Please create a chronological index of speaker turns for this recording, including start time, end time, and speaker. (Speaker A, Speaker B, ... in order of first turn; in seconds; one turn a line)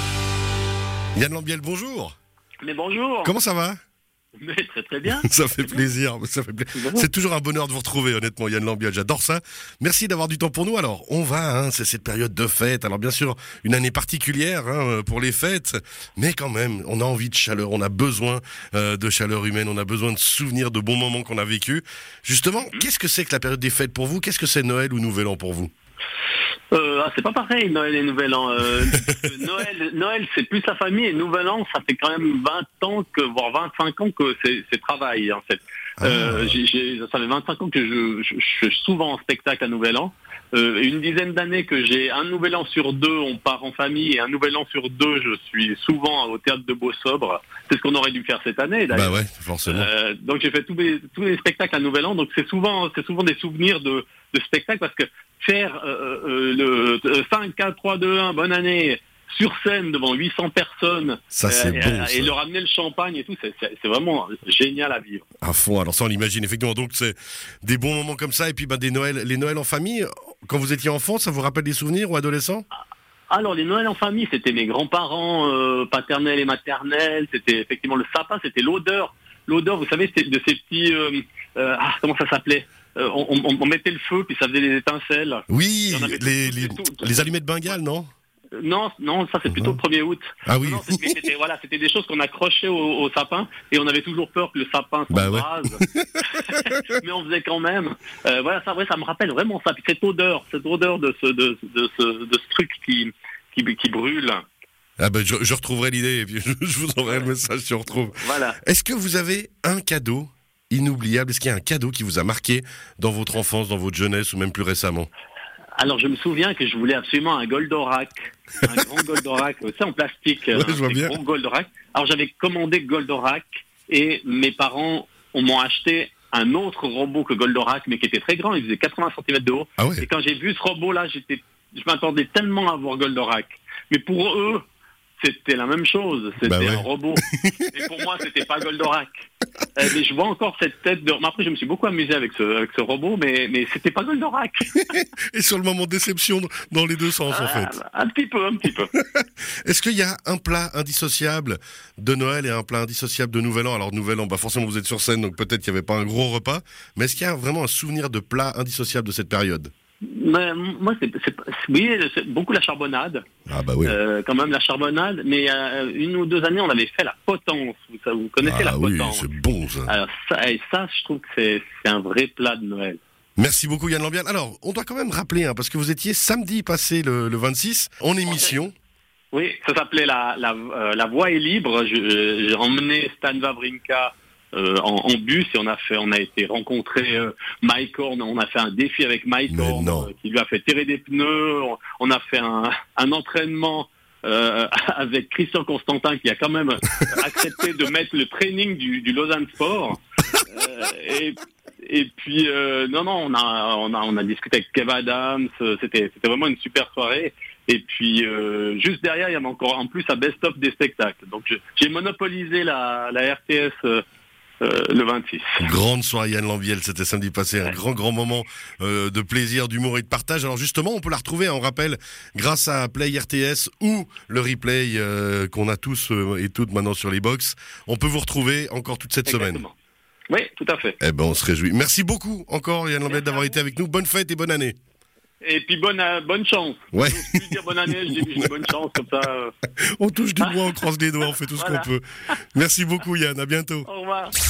Speaker A: 1.2-2.1
Speaker B: 2.6-3.3
Speaker A: 3.2-3.8
Speaker B: 4.4-5.9
Speaker A: 5.1-25.7
Speaker B: 6.7-7.1
Speaker B: 26.7-65.3
Speaker A: 36.0-36.6
Speaker A: 48.9-49.9
Speaker A: 61.3-62.3
Speaker A: 65.4-72.7
Speaker B: 73.3-87.3
Speaker A: 85.5-88.1
Speaker B: 88.6-104.5
Speaker A: 89.5-89.8
Speaker A: 90.5-91.2
Speaker A: 95.1-96.8
Speaker A: 105.0-115.1
Speaker B: 108.2-108.6
Speaker B: 115.8-134.6
Speaker A: 120.5-121.2
Speaker A: 129.8-130.1
Speaker B: 135.2-144.9
Speaker A: 136.4-137.7
Speaker A: 144.9-147.8
Speaker B: 147.3-148.9
Speaker A: 148.9-159.7
Speaker B: 160.0-163.3
Speaker A: 163.5-164.0
Speaker B: 163.8-173.0
Speaker A: 168.4-169.9
Speaker A: 173.4-178.7
Speaker B: 179.3-214.0
Speaker A: 189.5-190.1
Speaker B: 214.6-215.7
Speaker A: 215.6-229.7
Speaker B: 229.3-229.8
Speaker B: 230.3-231.0
Speaker A: 231.0-234.8
Speaker B: 233.1-233.6
Speaker B: 235.4-239.5
Speaker A: 236.9-238.5
Speaker A: 239.9-243.9
Speaker B: 240.4-240.8
Speaker B: 241.6-241.9
Speaker B: 243.8-244.3